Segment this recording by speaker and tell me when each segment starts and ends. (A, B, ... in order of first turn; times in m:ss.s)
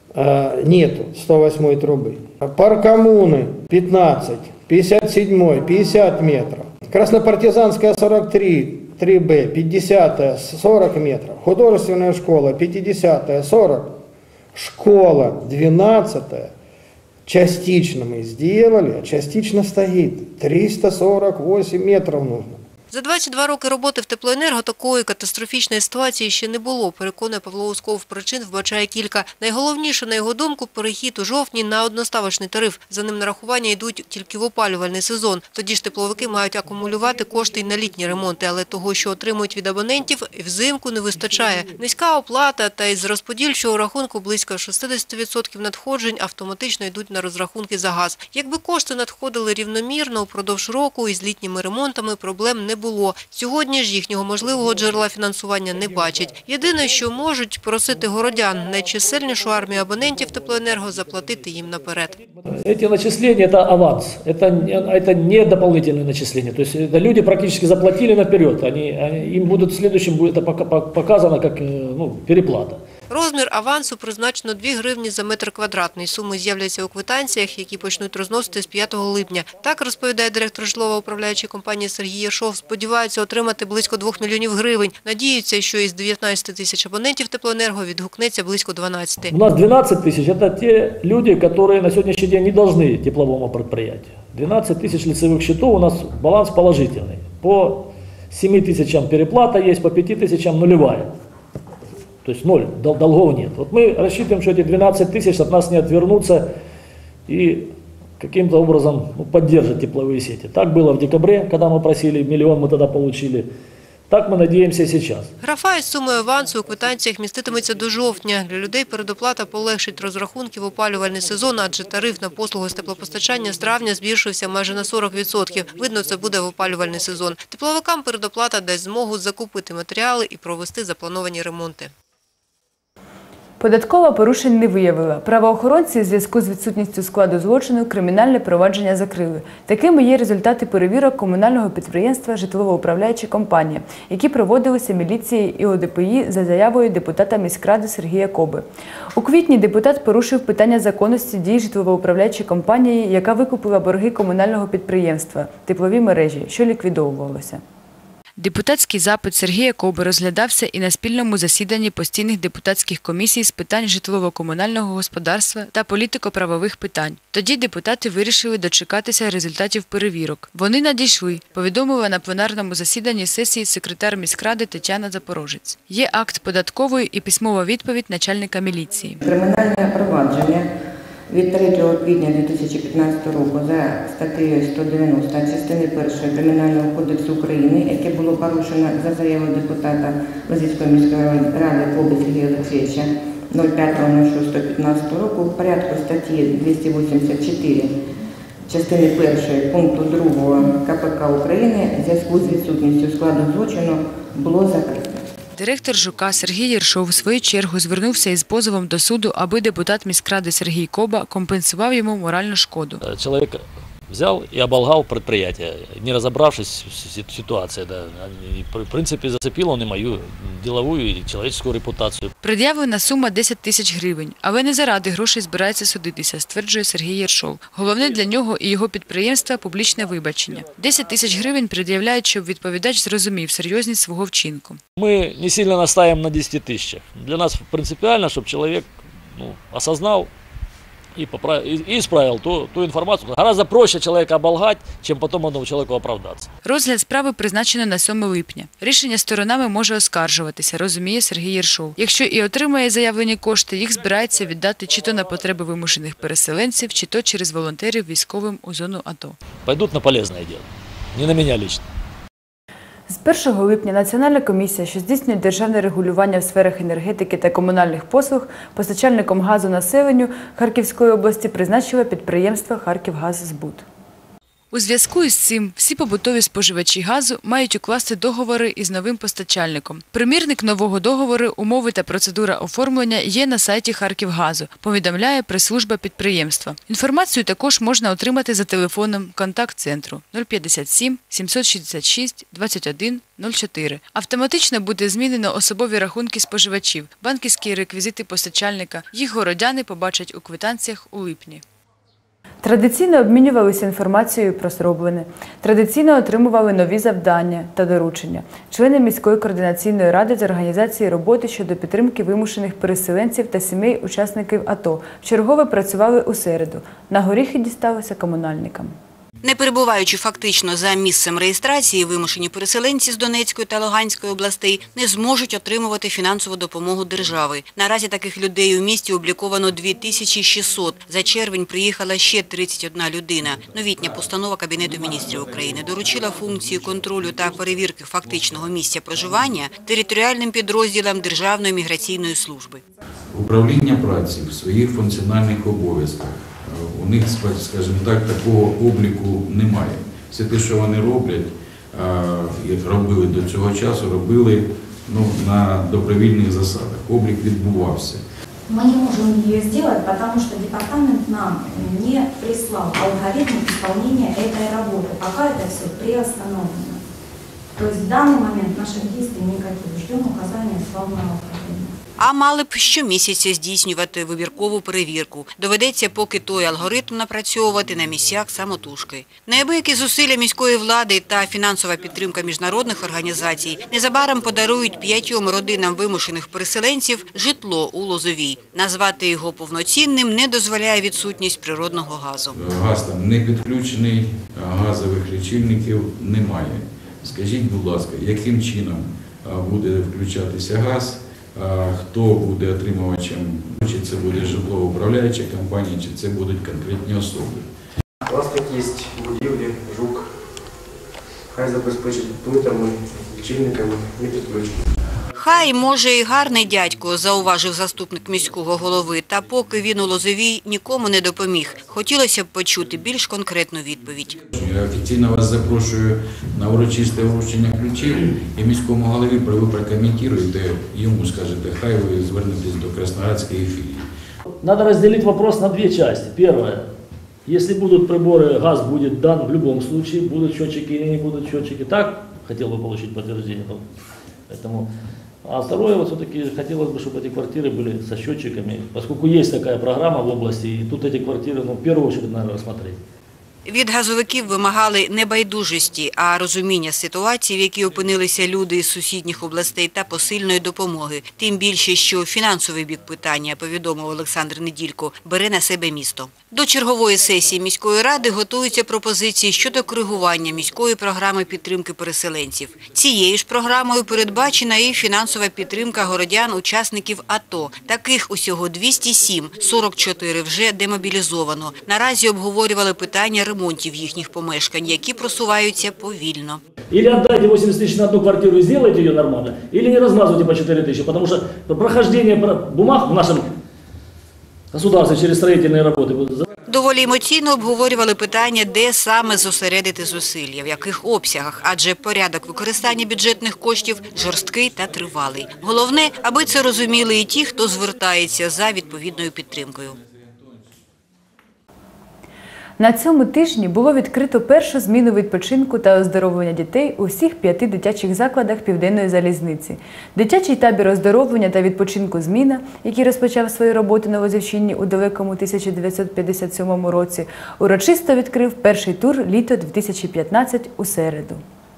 0:00.1-0:14.0 A
0:14.5-0:16.5 A
0:17.2-0:22.6 A
0:22.9-1:02.2 B
1:02.5-1:12.8 C
1:13.1-1:29.3 B
1:29.3-1:41.1 C
1:42.2-1:46.5 C
1:47.3-1:53.5 C
1:54.1-1:55.3 C
1:55.4-2:11.9 B
2:13.6-2:37.6 D
2:38.4-2:59.2 D
2:59.2-3:00.7 E
3:01.3-3:18.0 E
3:18.7-3:25.2 E
3:25.6-3:33.0 D
3:33.0-3:42.3 C
3:42.4-3:54.8 D
3:55.0-4:00.3 C
4:01.2-4:06.5 C
4:06.6-4:19.4 D
4:19.6-4:21.8 C
4:23.1-4:33.8 D
4:34.7-5:01.6 D
5:02.6-5:18.9 D
5:19.4-5:42.8 F
5:43.3-5:58.2 G
5:58.7-6:07.0 H
6:07.8-6:11.9 H
6:12.2-6:32.5 F
6:32.5-6:47.7 G
6:48.2-6:50.3 I
6:51.5-6:54.9 I
6:55.3-7:04.4 F
7:04.5-7:14.1 G
7:14.6-7:16.9 C
7:17.4-7:23.8 C
7:24.5-7:24.9 C
7:25.4-7:33.0 C
7:33.6-8:06.6 F
8:06.9-8:13.5 C
8:14.7-8:16.5 C
8:16.7-8:30.0 F
8:32.8-8:51.4 D